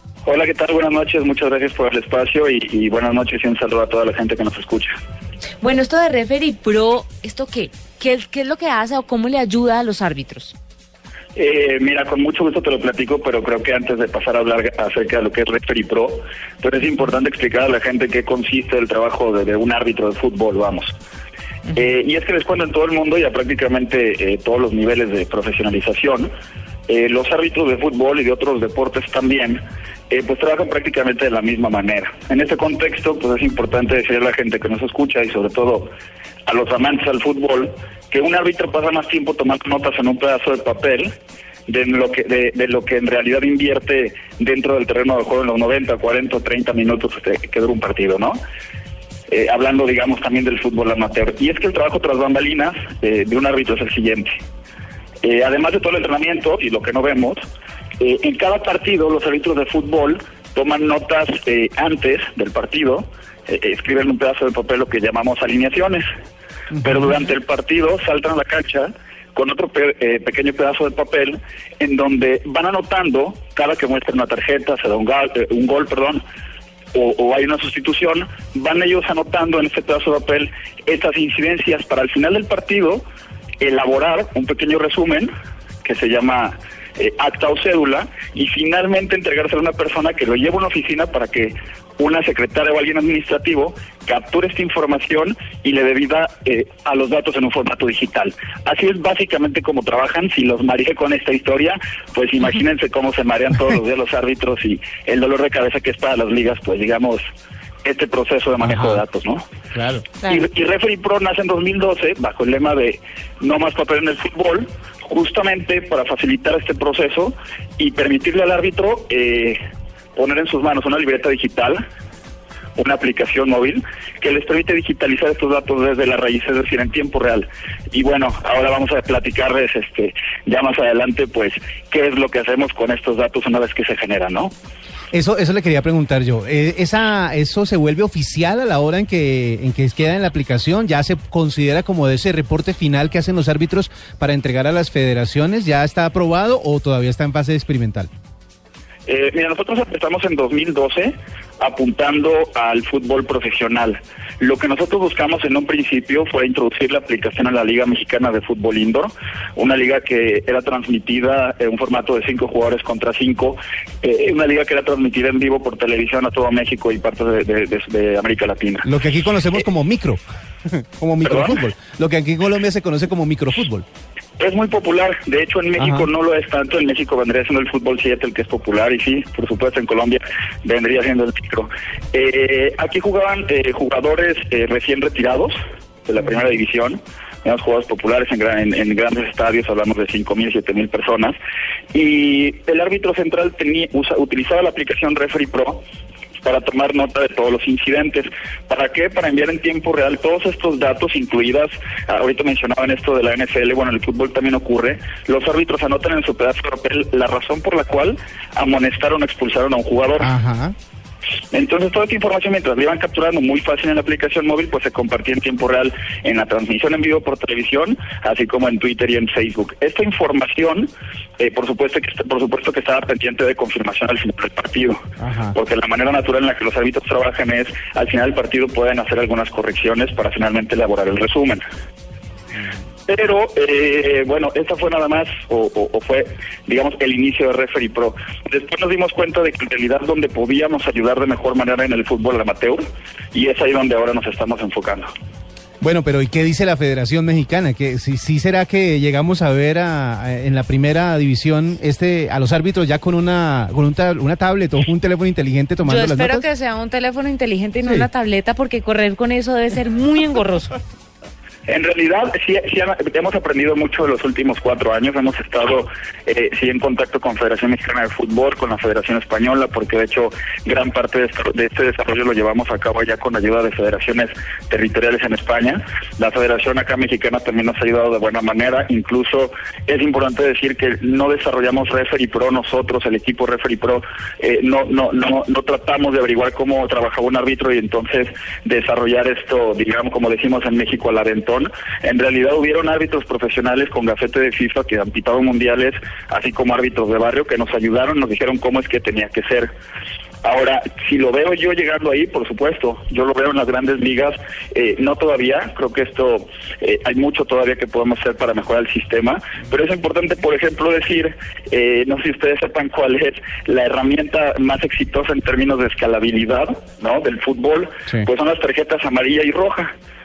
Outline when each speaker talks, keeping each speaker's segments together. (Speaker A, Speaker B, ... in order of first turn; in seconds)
Speaker A: 0.3-5.0, 11.4-20.9, 21.7-26.3, 26.9-35.9, 36.5-41.1, 41.7-48.4, 49.3-54.4, 55.2-57.4, 58.0-66.1, 66.8-76.2, 76.9-83.0, 83.6-85.3, 85.8-107.2, 107.8-109.5, 110.2-119.6, 120.2-121.8, 122.8-134.5, 149.1-168.9, 171.2-171.6, 174.4-191.4, 191.9-195.8, 196.4-210.3, 211.5-225.0, 225.5-231.6, 233.1-245.1, 261.7-299.7, 300.4-319.9
Speaker B: 5.6-10.6, 255.8-260.8
Speaker C: 108.6-109.0, 109.7-110.1, 135.1-148.1, 168.8-173.8, 175.8-176.1, 210.2-210.8, 225.2-225.6, 245.8-256.4